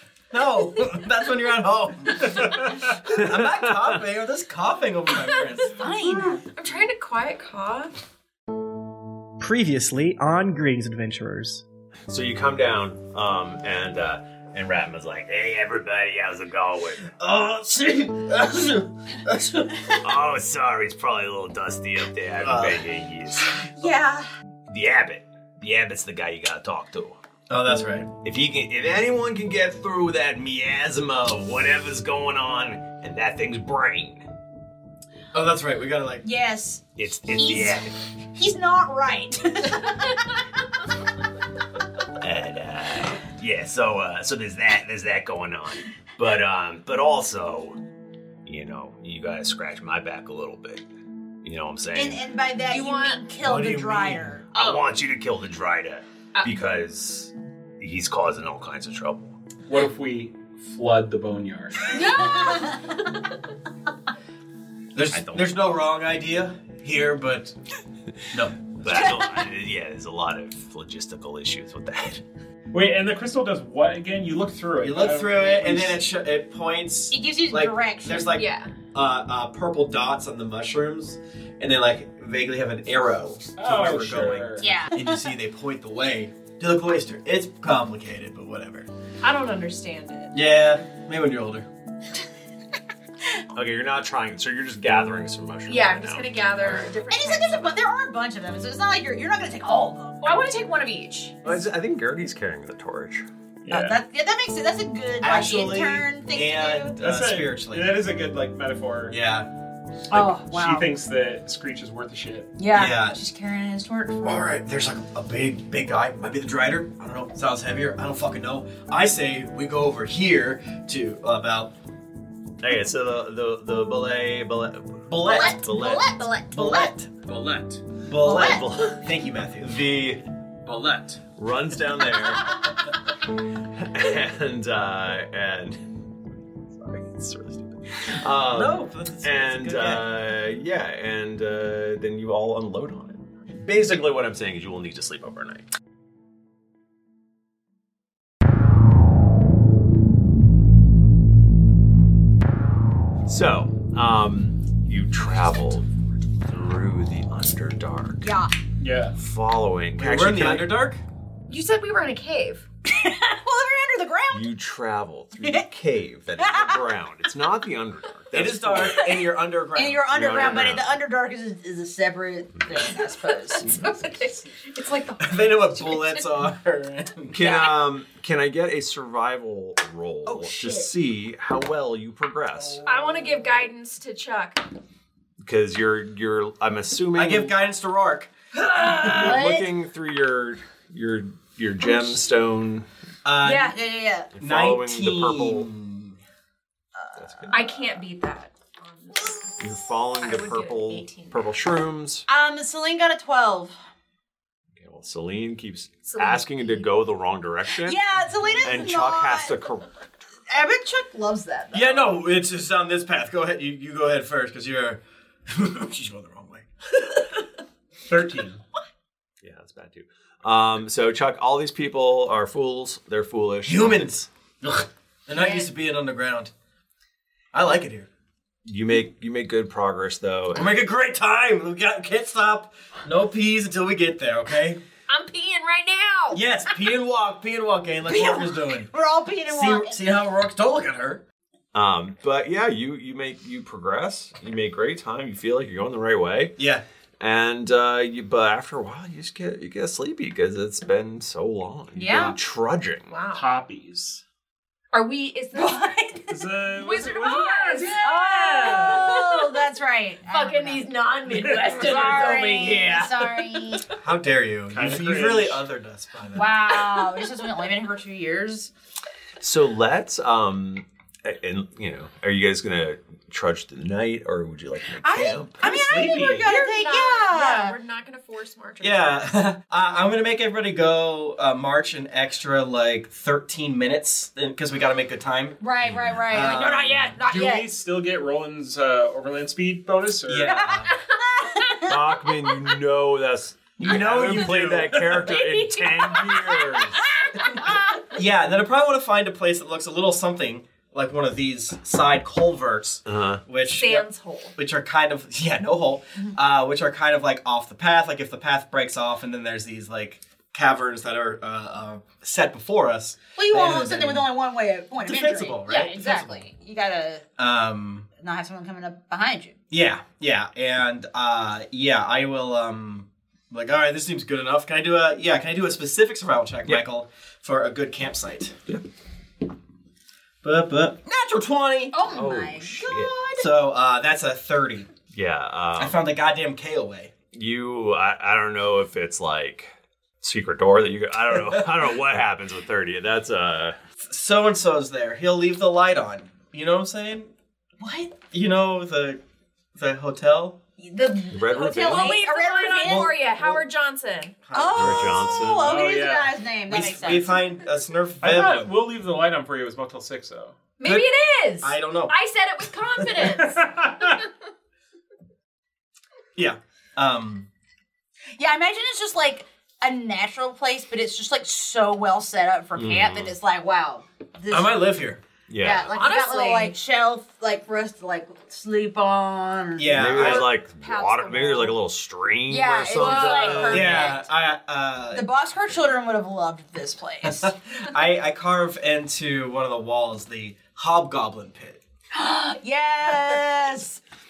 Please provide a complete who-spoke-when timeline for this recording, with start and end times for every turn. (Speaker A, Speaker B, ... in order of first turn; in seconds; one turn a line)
Speaker A: 0.3-5.8
Speaker B: 5.3-7.9
Speaker C: 5.7-6.4
Speaker A: 9.4-11.6
Speaker D: 12.1-17.1
Speaker A: 17.2-19.9
Speaker D: 20.0-23.6
Speaker A: 22.4-22.8
Speaker C: 23.8-24.3
Speaker D: 24.7-27.2
Speaker A: 27.5-28.1
Speaker D: 28.2-34.3
Speaker A: 35.3-36.3
Speaker C: 36.2-40.2
Speaker D: 37.0-37.9
Speaker D: 42.2-47.8
Speaker D: 48.5-50.9
Speaker D: 51.4-52.2
Speaker C: 51.9-54.5
Speaker B: 52.7-53.2
Speaker A: 53.4-54.3
Speaker D: 54.5-59.4
Speaker B: 54.5-54.9
Speaker E: 59.7-62.0
Speaker B: 61.9-63.0
Speaker C: 62.0-62.8
Speaker A: 64.9-67.6
Speaker D: 65.1-65.6
Speaker A: 68.3-69.2
Speaker D: 68.8-72.2
Speaker C: 68.9-69.4
Speaker E: 72.7-75.9
Speaker A: 74.8-88.9
Speaker C: 77.1-78.3
Speaker B: 78.3-78.7
Speaker E: 83.6-84.7
Speaker C: 84.6-85.2
Speaker B: 89.2-90.4
Speaker A: 90.3-91.7
Speaker D: 93.5-96.8
Speaker B: 95.7-97.7
Speaker C: 97.0-100.4
Speaker B: 100.2-101.4
Speaker D: 101.4-103.3
Speaker E: 103.7-104.0
Speaker C: 103.7-107.0
Speaker A: 105.2-108.1
Speaker E: 107.0-109.2
Speaker A: 109.1-109.5
Speaker E: 110.1-112.6
Speaker C: 110.1-110.9
Speaker C: 112.6-114.6
Speaker A: 112.7-113.2
Speaker A: 114.2-121.7
Speaker D: 122.6-126.4
Speaker A: 125.1-127.1
Speaker C: 125.2-126.9
Speaker E: 127.3-127.8
Speaker A: 128.1-129.9
Speaker C: 128.2-128.6
Speaker D: 128.2-129.1
Speaker D: 129.6-132.7
Speaker E: 130.7-131.2
Speaker D: 133.8-136.1
Speaker D: 136.7-145.7
Speaker A: 138.5-140.1
Speaker D: 153.3-155.9
Speaker D: 156.5-158.4
Speaker C: 158.2-158.5
Speaker E: 158.8-159.2
Speaker D: 159.2-160.8
Speaker A: 160.0-161.0
Speaker B: 161.5-162.7
Speaker C: 162.9-164.5
Speaker D: 164.3-169.2
Speaker C: 165.4-165.7
Speaker C: 166.4-166.8
Speaker A: 168.3-170.5
Speaker C: 169.7-173.7
Speaker D: 170.1-170.9
Speaker B: 173.2-176.2
Speaker A: 175.2-177.4
Speaker D: 177.3-182.8
Speaker C: 180.3-180.9
Speaker B: 182.8-184.7
Speaker D: 185.4-187.6
Speaker A: 187.2-188.3
Speaker C: 188.6-189.7
Speaker D: 188.8-192.9
Speaker A: 193.2-193.9
Speaker C: 193.4-194.3
Speaker D: 194.4-195.7
Speaker A: 194.4-196.2
Speaker C: 197.0-197.6
Speaker D: 197.2-197.9
Speaker B: 197.5-199.6
Speaker D: 199.6-202.3
Speaker B: 200.2-201.4
Speaker C: 202.3-203.7
Speaker D: 204.8-208.0
Speaker B: 206.1-206.9
Speaker C: 207.8-209.6
Speaker E: 208.2-208.7
Speaker D: 208.6-209.9
Speaker C: 210.5-212.2
Speaker A: 211.7-217.3
Speaker E: 218.1-218.6
Speaker D: 219.4-224.1
Speaker A: 223.7-226.5
Speaker B: 225.3-225.7
Speaker A: 227.5-228.1
Speaker D: 228.7-230.7
Speaker A: 230.5-234.8
Speaker B: 235.1-236.4
Speaker A: 236.3-238.9
Speaker C: 238.0-240.0
Speaker A: 239.5-241.2
Speaker D: 241.7-246.6
Speaker A: 246.6-246.8
Speaker D: 247.2-253.1
Speaker C: 251.9-252.4
Speaker B: 253.1-253.5
Speaker E: 253.3-254.2
Speaker B: 254.9-259.6
Speaker C: 255.5-256.2
Speaker E: 256.3-259.2
Speaker C: 258.0-260.9
Speaker B: 260.3-263.9
Speaker E: 261.3-262.2
Speaker C: 261.8-263.9
Speaker A: 264.0-266.8
Speaker E: 264.7-265.7
Speaker C: 266.4-268.7
Speaker D: 269.4-275.6
Speaker C: 275.0-277.8
Speaker E: 275.6-276.6
Speaker B: 276.0-279.2
Speaker A: 278.8-285.6
Speaker C: 285.6-287.7
Speaker A: 286.2-287.2
Speaker E: 287.2-290.6
Speaker A: 290.3-290.9
Speaker C: 290.4-292.0
Speaker D: 291.9-297.0
Speaker A: 293.8-295.2
Speaker C: 295.1-298.1
Speaker A: 298.1-314.3
Speaker D: 303.1-303.4
Speaker B: 303.8-304.6
Speaker C: 313.4-317.2
Speaker A: 315.0-316.5
Speaker A: 317.4-318.1
Speaker C: 318.2-319.6
Speaker A: 319.7-328.6
Speaker A: 330.4-332.0
Speaker C: 331.9-333.5
Speaker D: 332.1-333.2
Speaker A: 333.4-334.9
Speaker D: 335.1-336.0
Speaker A: 335.8-337.1
Speaker D: 337.3-343.8
Speaker A: 344.1-347.3
Speaker C: 347.8-348.2
Speaker A: 348.2-349.2
Speaker A: 349.8-350.6
Speaker C: 350.8-353.2
Speaker D: 351.3-352.2
Speaker B: 351.8-354.4
Speaker A: 353.3-353.6
Speaker A: 354.5-355.3
Speaker C: 354.5-357.5
Speaker D: 354.8-355.9
Speaker E: 355.6-356.4
Speaker A: 356.7-358.7
Speaker E: 358.2-360.6
Speaker B: 360.8-364.2
Speaker A: 361.6-362.1
Speaker E: 363.3-364.2
Speaker A: 366.4-367.5
Speaker C: 368.4-374.8
Speaker D: 372.8-373.4
Speaker A: 374.5-375.2
Speaker D: 375.5-375.9
Speaker C: 375.6-381.8
Speaker B: 375.9-376.8
Speaker A: 379.8-380.6
Speaker D: 379.9-384.0
Speaker C: 382.5-384.3
Speaker B: 383.0-384.2
Speaker A: 383.7-385.3
Speaker C: 385.1-387.5
Speaker A: 387.2-391.8
Speaker C: 392.1-394.0